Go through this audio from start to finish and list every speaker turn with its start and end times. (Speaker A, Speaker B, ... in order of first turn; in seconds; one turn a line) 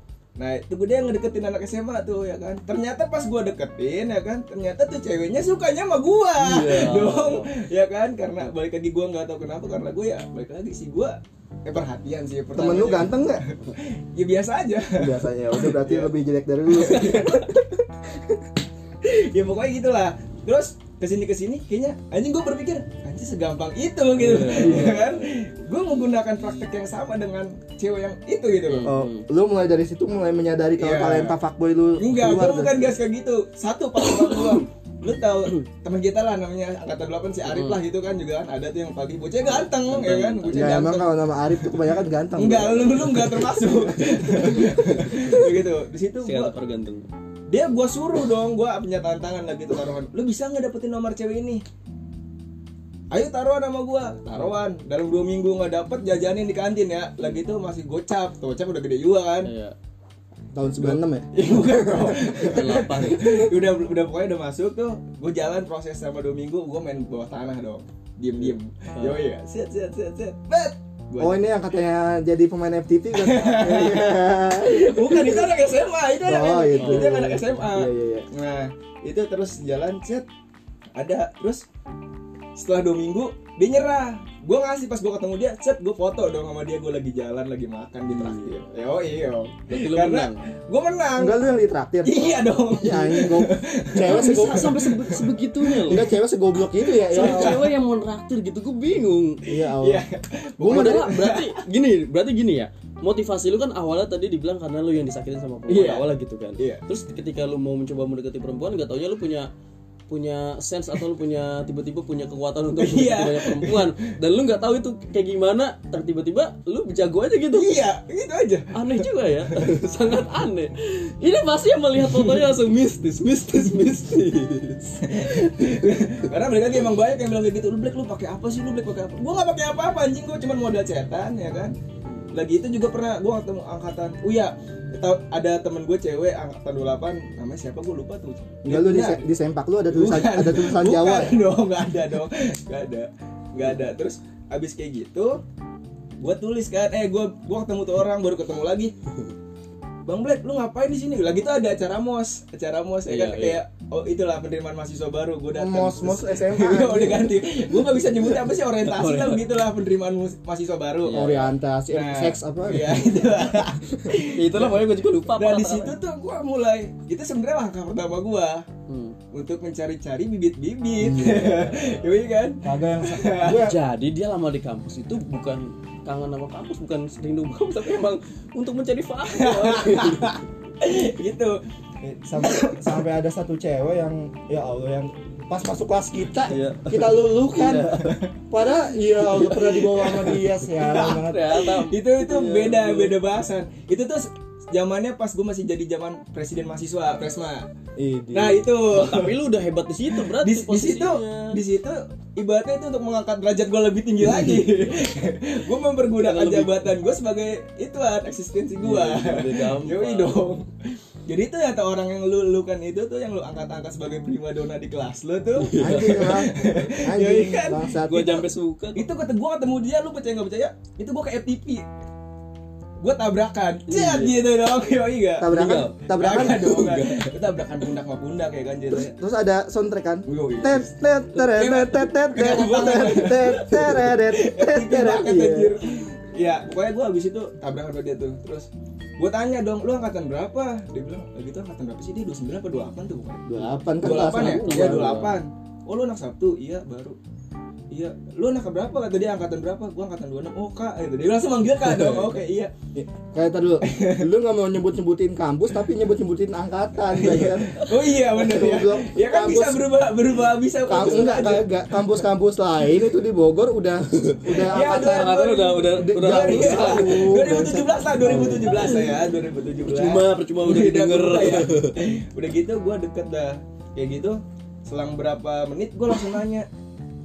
Speaker A: 0.4-16.1
Speaker B: 6.4-7.5
Speaker C: 12.5-13.5
Speaker C: 14.9-18.4
Speaker A: 16.7-17.6
Speaker A: 19.0-28.9
Speaker B: 24.1-25.4
Speaker C: 24.6-25.0
Speaker B: 28.7-29.3
Speaker C: 28.9-32.9
Speaker A: 30.8-31.4
Speaker A: 32.0-41.7
Speaker B: 34.2-34.6
Speaker B: 37.5-37.8
Speaker B: 39.5-40.9
Speaker C: 40.5-45.3
Speaker A: 42.4-46.5
Speaker B: 45.0-45.5
Speaker B: 46.2-47.1
Speaker A: 47.5-51.6
Speaker A: 53.1-59.5
Speaker B: 54.3-54.6
Speaker B: 59.4-59.8
Speaker C: 60.5-62.2
Speaker A: 60.8-71.5
Speaker B: 62.2-63.5
Speaker B: 68.4-69.2
Speaker C: 71.2-75.6
Speaker A: 73.1-80.3
Speaker C: 76.2-78.3
Speaker B: 76.8-77.2
Speaker A: 81.0-81.7
Speaker A: 82.6-91.4
Speaker B: 88.1-88.6
Speaker B: 89.7-90.4
Speaker C: 91.2-94.8
Speaker A: 92.0-95.8
Speaker B: 94.0-96.0
Speaker C: 95.8-97.7
Speaker A: 97.1-97.7
Speaker B: 97.1-99.5
Speaker C: 99.5-100.0
Speaker A: 99.7-101.6
Speaker C: 100.6-101.1
Speaker B: 100.6-109.5
Speaker A: 105.7-106.1
Speaker B: 110.1-117.8
Speaker A: 112.8-114.1
Speaker A: 117.5-119.6
Speaker B: 118.7-125.8
Speaker A: 122.2-122.4
Speaker A: 125.0-131.8
Speaker A: 132.3-139.2
Speaker C: 138.7-141.4
Speaker A: 139.9-145.4
Speaker A: 146.2-148.9
Speaker A: 150.1-168.7
Speaker B: 153.1-153.6
Speaker C: 155.6-157.4
Speaker B: 158.8-159.4
Speaker B: 161.1-161.5
Speaker C: 161.1-164.1
Speaker B: 164.3-166.0
Speaker B: 168.9-169.2
Speaker A: 169.3-173.7
Speaker C: 171.0-171.5
Speaker B: 171.3-172.1
Speaker C: 172.6-173.8
Speaker B: 173.5-180.4
Speaker A: 179.3-183.0
Speaker C: 182.3-191.5
Speaker B: 186.5-188.2
Speaker B: 189.2-193.2
Speaker A: 190.1-197.7
Speaker C: 198.0-198.7
Speaker A: 198.3-199.4
Speaker B: 198.9-201.6
Speaker A: 200.1-210.7
Speaker B: 206.2-206.9
Speaker B: 208.8-210.6
Speaker A: 211.3-217.9
Speaker B: 215.6-216.5
Speaker C: 215.8-218.4
Speaker B: 218.1-219.1
Speaker A: 218.9-221.8
Speaker A: 223.0-229.1
Speaker B: 223.9-224.4
Speaker C: 225.4-226.8
Speaker B: 225.5-227.3
Speaker C: 228.9-235.8
Speaker A: 230.3-247.2
Speaker C: 243.5-245.2
Speaker B: 244.0-245.4
Speaker A: 247.9-252.7
Speaker C: 252.0-252.3
Speaker C: 252.9-259.9
Speaker A: 253.8-254.3
Speaker A: 257.1-262.1
Speaker C: 260.9-269.0
Speaker B: 264.2-267.4
Speaker A: 264.6-276.7
Speaker B: 268.2-269.2
Speaker B: 269.8-272.1